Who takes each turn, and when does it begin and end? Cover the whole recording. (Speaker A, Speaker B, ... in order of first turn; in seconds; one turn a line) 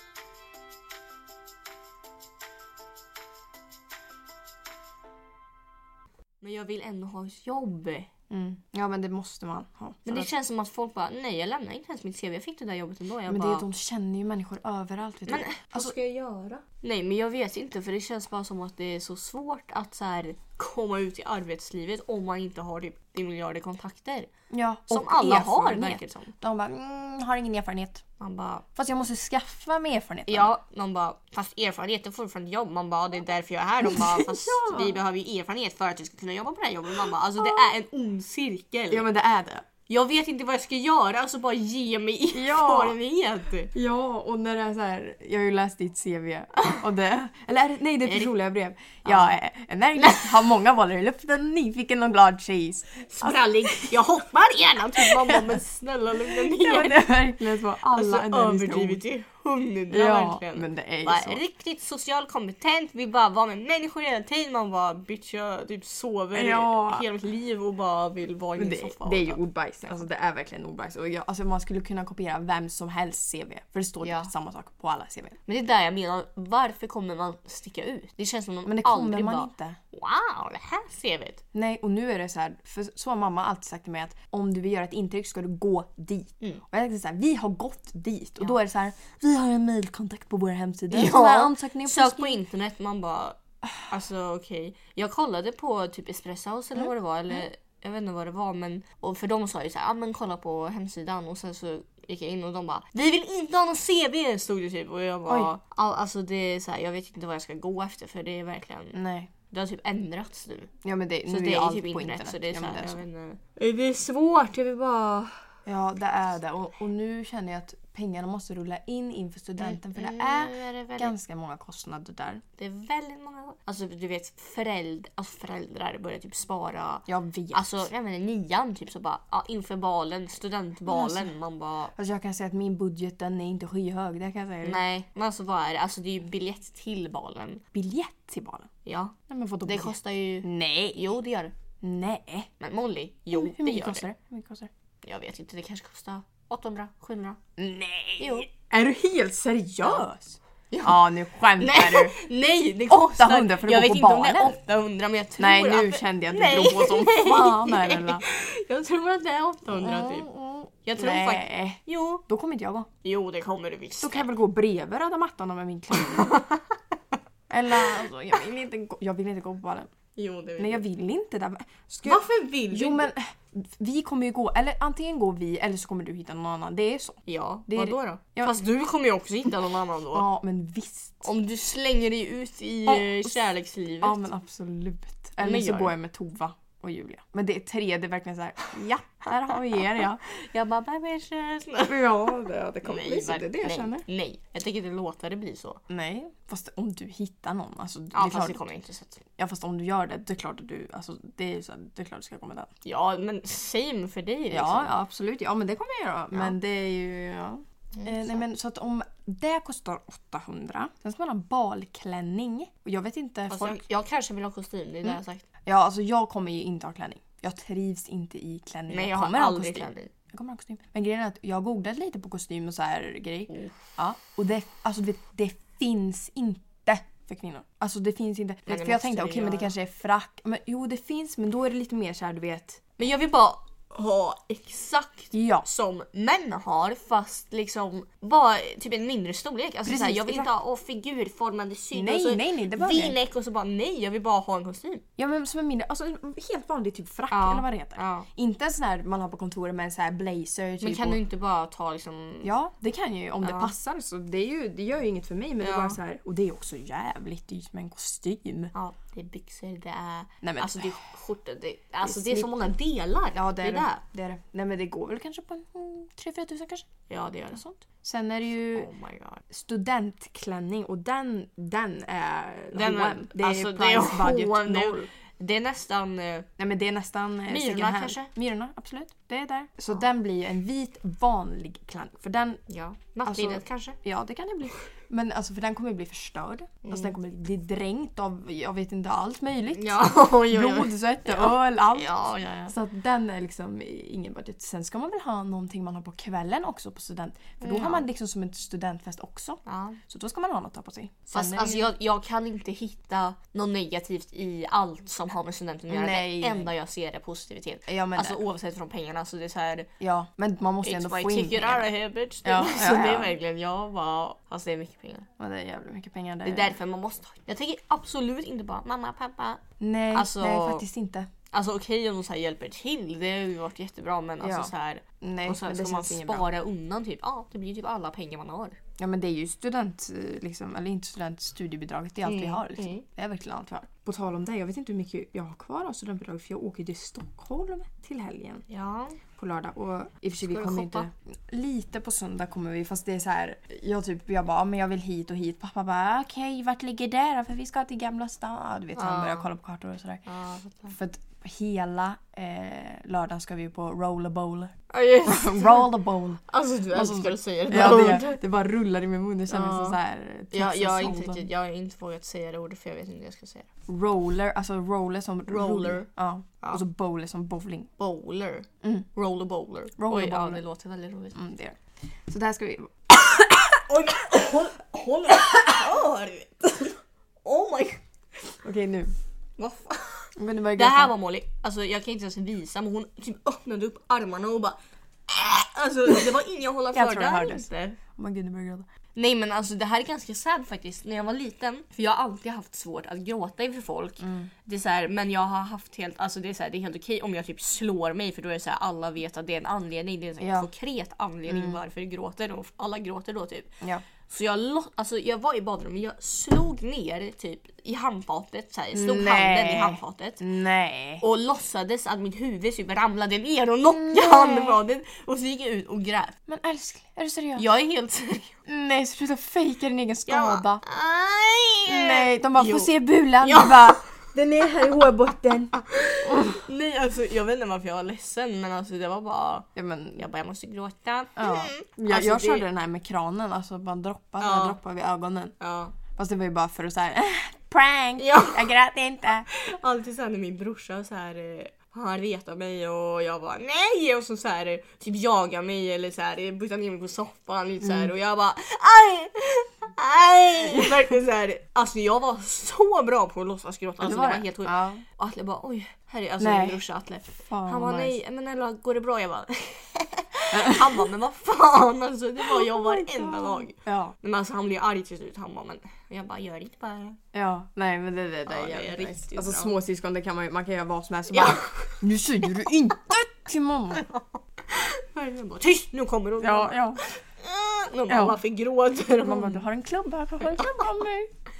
Speaker A: 6.4-8.1
Speaker B: 8.3-10.3
Speaker A: 10.1-13.7
Speaker B: 13.3-15.9
Speaker A: 15.3-24.3
Speaker B: 24.5-28.0
Speaker A: 24.9-26.3
Speaker A: 28.2-28.6
Speaker B: 28.8-30.5
Speaker A: 30.3-39.1
Speaker B: 33.8-35.0
Speaker B: 37.4-37.7
Speaker B: 38.9-39.6
Speaker A: 39.9-43.7
Speaker B: 42.3-43.0
Speaker B: 43.7-53.9
Speaker A: 48.0-48.3
Speaker A: 49.0-49.4
Speaker A: 50.0-50.5
Speaker A: 53.1-57.1
Speaker B: 55.0-55.6
Speaker B: 56.3-59.0
Speaker A: 57.9-70.0
Speaker B: 59.9-61.4
Speaker B: 66.3-67.0
Speaker B: 68.6-75.4
Speaker A: 74.0-74.3
Speaker A: 75.5-81.4
Speaker B: 78.6-79.8
Speaker B: 81.5-92.4
Speaker A: 90.9-109.0
Speaker B: 96.7-97.5
Speaker B: 105.3-105.5
Speaker B: 108.9-109.3
Speaker A: 109.5-110.7
Speaker B: 110.8-113.0
Speaker A: 111.3-115.3
Speaker B: 115.7-122.4
Speaker A: 119.6-121.1
Speaker A: 122.6-131.9
Speaker B: 127.1-127.9
Speaker B: 130.9-131.3
Speaker B: 131.9-134.8
Speaker A: 134.6-137.6
Speaker B: 137.7-138.7
Speaker A: 138.8-141.5
Speaker B: 139.3-141.0
Speaker B: 141.8-142.5
Speaker A: 142.6-144.0
Speaker B: 143.3-144.7
Speaker A: 145.0-147.4
Speaker B: 147.6-152.2
Speaker A: 148.2-148.5
Speaker A: 150.7-151.0
Speaker A: 151.6-160.3
Speaker B: 152.9-154.6
Speaker B: 155.4-158.2
Speaker B: 159.7-162.9
Speaker A: 160.8-162.2
Speaker A: 163.0-164.3
Speaker B: 164.0-166.3
Speaker A: 166.0-166.6
Speaker B: 167.5-169.9
Speaker A: 170.2-170.8
Speaker B: 170.6-178.5
Speaker A: 172.0-173.1
Speaker A: 177.3-180.3
Speaker B: 180.1-181.2
Speaker A: 181.2-184.2
Speaker B: 182.8-183.4
Speaker B: 184.0-190.2
Speaker A: 185.4-185.9
Speaker A: 190.2-195.8
Speaker B: 191.8-194.0
Speaker B: 195.9-198.6
Speaker A: 198.1-199.2
Speaker B: 199.4-202.7
Speaker A: 202.8-204.9
Speaker B: 204.5-213.8
Speaker A: 207.9-208.4
Speaker A: 213.5-215.4
Speaker B: 215.0-232.8
Speaker A: 218.9-220.1
Speaker A: 223.5-223.8
Speaker A: 228.7-229.7
Speaker A: 233.0-245.0
Speaker B: 235.3-235.7
Speaker B: 239.8-240.5
Speaker B: 241.9-243.2
Speaker B: 245.2-251.2
Speaker A: 247.3-248.3
Speaker A: 250.8-252.5
Speaker B: 252.4-258.7
Speaker A: 253.4-253.7
Speaker A: 255.6-256.0
Speaker A: 258.7-264.0
Speaker B: 260.4-260.9
Speaker B: 262.0-262.7
Speaker B: 263.3-266.9
Speaker A: 267.1-267.6
Speaker B: 267.5-268.9
Speaker A: 268.7-269.4
Speaker B: 269.5-275.0
Speaker A: 272.7-276.5
Speaker B: 276.6-282.6
Speaker A: 277.5-278.3
Speaker A: 282.7-284.0
Speaker B: 283.2-292.2
Speaker A: 286.8-287.1
Speaker A: 289.7-292.7
Speaker B: 292.7-301.9
Speaker A: 297.6-298.1
Speaker A: 299.6-300.0
Speaker A: 301.3-309.9
Speaker B: 305.9-306.7
Speaker B: 307.9-308.4
Speaker B: 310.0-311.9
Speaker A: 310.8-315.3
Speaker B: 312.4-313.4
Speaker B: 315.4-316.8
Speaker A: 316.4-319.6
Speaker B: 319.8-321.3
Speaker A: 320.1-320.8
Speaker A: 321.5-328.8
Speaker B: 324.4-326.5
Speaker B: 329.0-338.6
Speaker A: 332.2-333.0
Speaker A: 338.7-339.2
Speaker B: 339.4-350.2
Speaker A: 340.4-341.1
Speaker A: 348.9-349.5
Speaker A: 350.2-350.9
Speaker B: 350.9-354.7
Speaker A: 354.9-355.9
Speaker B: 355.2-361.5
Speaker A: 356.5-358.4
Speaker A: 359.5-360.0
Speaker A: 360.5-363.7
Speaker B: 363.9-367.9
Speaker A: 365.5-366.1
Speaker A: 368.0-371.4
Speaker B: 370.0-370.6
Speaker B: 371.3-373.5
Speaker A: 373.5-378.0
Speaker B: 378.6-379.1
Speaker A: 379.6-388.0
Speaker B: 380.4-381.1
Speaker B: 386.9-388.9
Speaker A: 389.1-403.7
Speaker B: 394.2-394.5
Speaker B: 400.4-400.7
Speaker B: 401.5-401.8
Speaker A: 404.3-410.4
Speaker B: 408.9-411.2
Speaker A: 411.2-416.3
Speaker B: 413.9-414.8
Speaker B: 416.5-417.6
Speaker A: 417.6-418.6
Speaker B: 418.6-420.8
Speaker A: 420.3-424.0
Speaker B: 421.9-425.7
Speaker A: 425.7-432.6
Speaker B: 426.3-426.6
Speaker B: 429.7-430.2
Speaker B: 431.4-435.5
Speaker A: 434.4-434.8
Speaker A: 435.6-435.9
Speaker B: 436.1-439.5
Speaker A: 438.2-438.7
Speaker A: 439.5-467.2
Speaker B: 447.8-448.1
Speaker B: 454.0-455.0
Speaker B: 456.4-456.8
Speaker B: 457.4-458.2
Speaker B: 460.5-461.1
Speaker B: 462.4-464.1
Speaker B: 467.3-474.1
Speaker A: 468.5-469.7
Speaker A: 471.3-472.0
Speaker A: 473.9-479.7
Speaker B: 476.4-477.0
Speaker B: 478.1-478.4
Speaker B: 479.2-481.3
Speaker A: 480.4-480.9